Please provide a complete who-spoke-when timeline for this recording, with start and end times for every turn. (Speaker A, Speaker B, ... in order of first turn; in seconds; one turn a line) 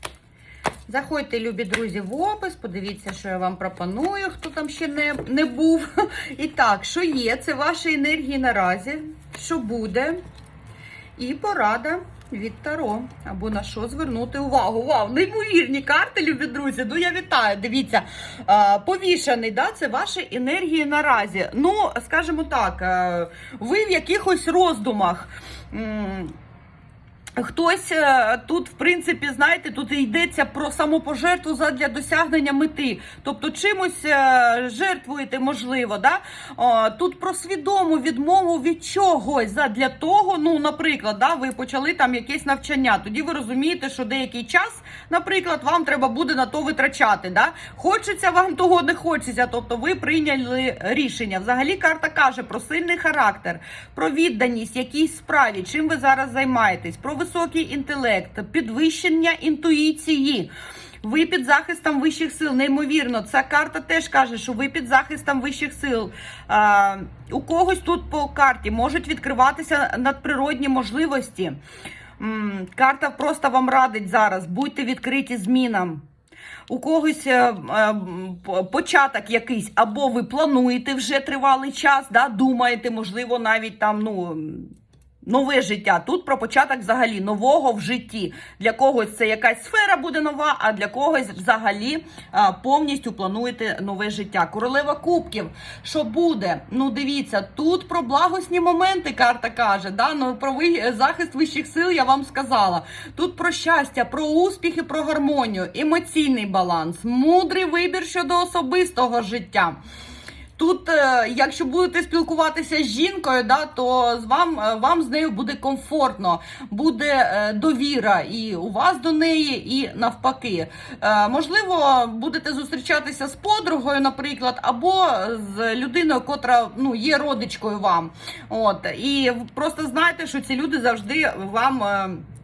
Speaker A: 0.9-10.2
Speaker A: 11.2-26.3
Speaker A: 27.4-60.5
Speaker A: 61.0-71.6
Speaker A: 72.2-76.0
Speaker A: 76.7-109.8
Speaker A: 110.6-132.2